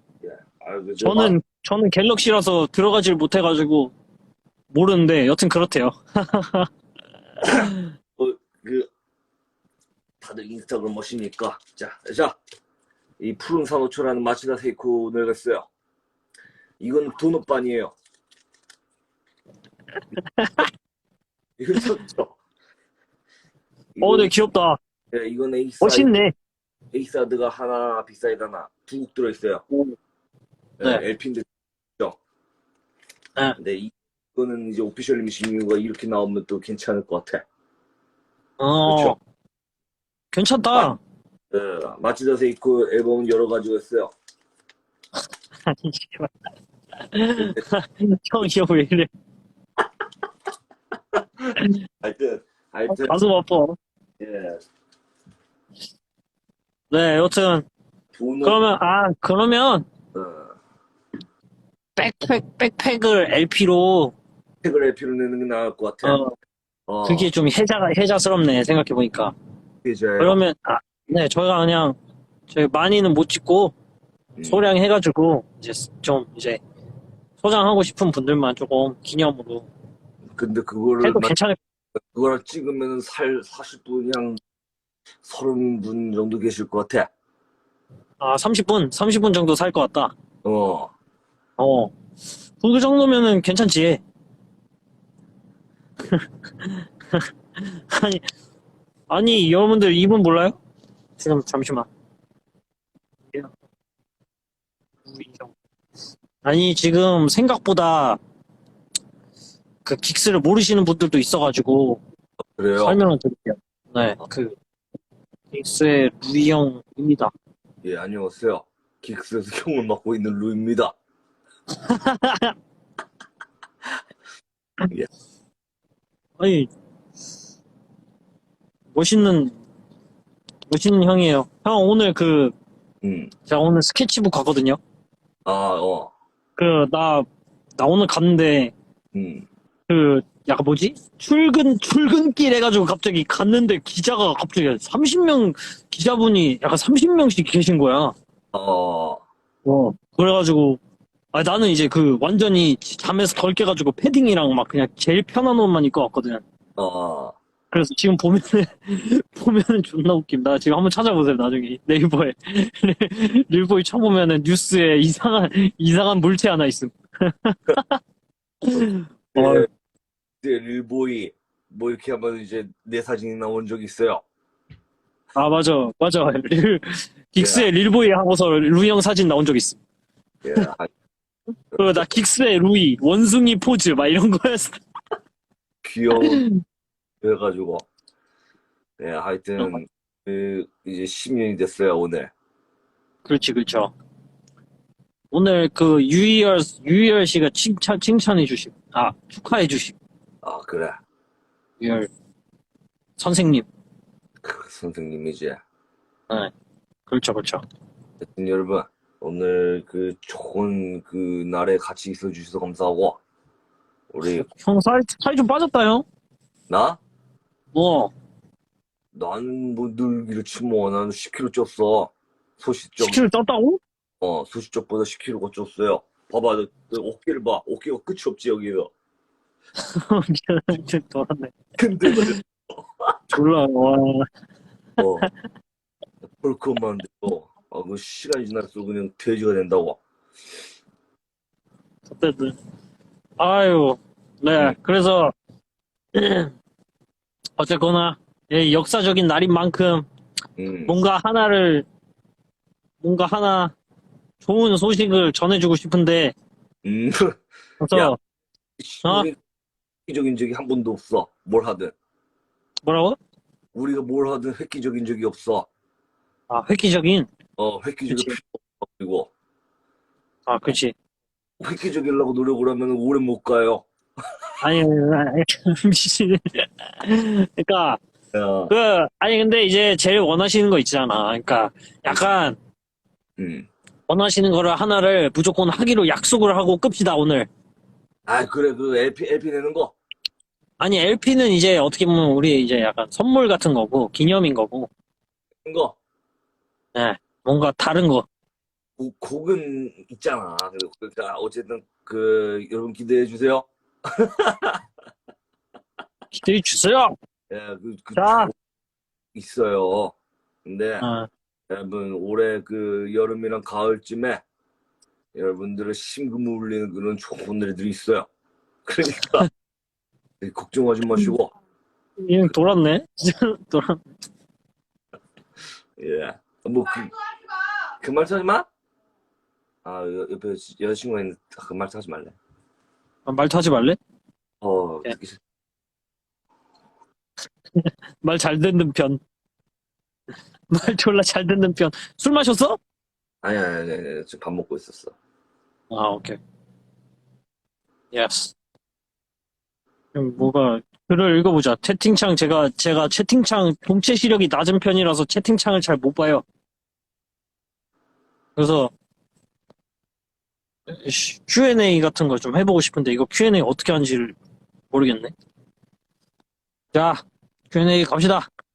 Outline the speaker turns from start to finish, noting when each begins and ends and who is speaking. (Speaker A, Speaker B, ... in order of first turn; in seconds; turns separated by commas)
Speaker A: 0.2-1.4, Speaker B: 1.0-3.9, Speaker B: 4.7-6.7, Speaker B: 7.5-7.8, Speaker A: 8.2-8.9, Speaker A: 10.2-12.4, Speaker A: 13.2-15.7, Speaker A: 16.8-17.9, Speaker B: 20.2-20.7, Speaker A: 21.6-22.4, Speaker A: 23.9-24.3, Speaker B: 24.0-24.8, Speaker A: 25.1-26.1, Speaker B: 25.8-26.3, Speaker A: 26.9-29.6, Speaker A: 30.8-32.2, Speaker A: 33.6-37.5, Speaker B: 38.6-39.2, Speaker A: 38.9-39.2, Speaker B: 40.3-41.0, Speaker A: 41.5-44.1, Speaker B: 45.7-46.3, Speaker B: 47.1-49.1, Speaker A: 51.5-53.2, Speaker B: 52.9-53.8, Speaker A: 54.2-54.6, Speaker B: 56.9-57.7, Speaker A: 58.1-58.6, Speaker B: 58.4-59.9, Speaker A: 60.1-60.6, Speaker B: 62.0-64.2, Speaker A: 64.6-66.2, Speaker B: 66.0-66.3, Speaker A: 66.9-67.3, Speaker B: 67.0-69.3, Speaker A: 69.8-70.4, Speaker B: 70.2-72.0, Speaker B: 72.5-73.8, Speaker A: 74.4-74.7, Speaker B: 74.5-76.6, Speaker B: 77.4-79.7, Speaker A: 80.4-81.3, Speaker B: 81.0-81.6, Speaker A: 82.0-84.4, Speaker A: 85.2-87.1, Speaker B: 88.2-90.1, Speaker A: 90.4-90.9, Speaker B: 91.6-91.9, Speaker B: 92.6-94.0, Speaker B: 96.1-98.2, Speaker B: 99.1-100.6, Speaker B: 101.2-101.9, Speaker B: 105.1-105.5, Speaker B: 106.4-108.2, Speaker B: 109.8-112.0, Speaker A: 112.6-113.0, Speaker B: 112.8-114.6, Speaker B: 115.5-117.3, Speaker A: 117.8-121.0, Speaker B: 121.8-122.5, Speaker B: 126.4-126.7, Speaker B: 128.9-129.6, Speaker B: 130.7-132.6, Speaker A: 133.0-133.3, Speaker B: 133.5-134.8, Speaker A: 135.5-136.1, Speaker B: 136.6-137.3, Speaker B: 137.8-138.7, Speaker A: 139.1-139.5, Speaker B: 139.9-148.2, Speaker A: 148.5-149.2, Speaker B: 149.7-150.8, Speaker B: 151.3-156.4, Speaker A: 156.8-157.4, Speaker B: 157.7-168.0, Speaker B: 168.6-169.7, Speaker A: 169.3-169.7, Speaker A: 170.4-174.2, Speaker B: 175.3-179.8, Speaker A: 177.4-177.7, Speaker A: 180.4-180.9, Speaker A: 181.7-182.1, Speaker B: 181.8-184.8, Speaker A: 185.8-186.4, Speaker B: 186.1-186.6, Speaker A: 187.2-187.9, Speaker A: 189.0-192.3, Speaker B: 193.2-193.9, Speaker B: 195.3-200.0, Speaker A: 200.4-201.0, Speaker B: 201.8-202.1, Speaker B: 203.2-203.7, Speaker A: 204.4-205.6, Speaker B: 207.1-207.6, Speaker A: 208.2-213.2, Speaker A: 214.1-214.5, Speaker B: 214.3-216.1, Speaker A: 216.7-217.0, Speaker B: 217.7-218.1, Speaker A: 219.1-223.2, Speaker B: 223.0-223.8, Speaker A: 224.2-228.9, Speaker B: 229.8-232.4, Speaker A: 231.8-233.1, Speaker B: 233.3-234.3, Speaker A: 235.0-235.3, Speaker A: 236.3-240.0, Speaker B: 242.1-242.6, Speaker B: 243.4-245.3, Speaker B: 246.1-246.5, Speaker B: 247.6-250.1, Speaker A: 250.6-250.9, Speaker B: 250.9-251.9, Speaker B: 253.0-253.8, Speaker B: 254.4-256.4, Speaker A: 256.8-257.4, Speaker B: 257.8-258.2, Speaker A: 258.8-259.4, Speaker A: 260.1-261.9, Speaker B: 262.8-263.2, Speaker A: 263.7-265.7, Speaker B: 266.5-267.3, Speaker A: 267.6-269.3, Speaker B: 268.1-268.4, Speaker B: 270.5-270.9, Speaker A: 271.6-273.9, Speaker B: 274.6-278.0, Speaker A: 278.3-278.7, Speaker B: 278.7-282.6, Speaker A: 283.4-283.7, Speaker B: 284.1-287.5, Speaker A: 288.3-289.9, Speaker B: 290.8-294.9, Speaker A: 295.6-296.0, Speaker B: 296.9-298.3, Speaker A: 299.0-304.8, Speaker B: 306.3-307.2, Speaker A: 307.5-308.5, Speaker B: 308.2-308.5, Speaker A: 309.3-311.1, Speaker B: 311.0-311.3, Speaker A: 311.7-314.4, Speaker A: 315.4-318.3, Speaker A: 318.9-319.5, Speaker A: 320.4-321.5, Speaker B: 322.2-324.0, Speaker A: 326.0-327.1, Speaker A: 328.0-328.7, Speaker A: 329.8-332.4, Speaker B: 333.3-334.0, Speaker A: 334.6-335.4, Speaker B: 337.8-339.2, Speaker B: 340.7-342.8, Speaker A: 343.4-345.1, Speaker B: 345.9-346.4, Speaker B: 348.1-348.6, Speaker B: 350.1-356.4, Speaker B: 358.6-358.9, Speaker B: 360.9-364.4, Speaker B: 364.9-365.3, Speaker B: 366.9-368.5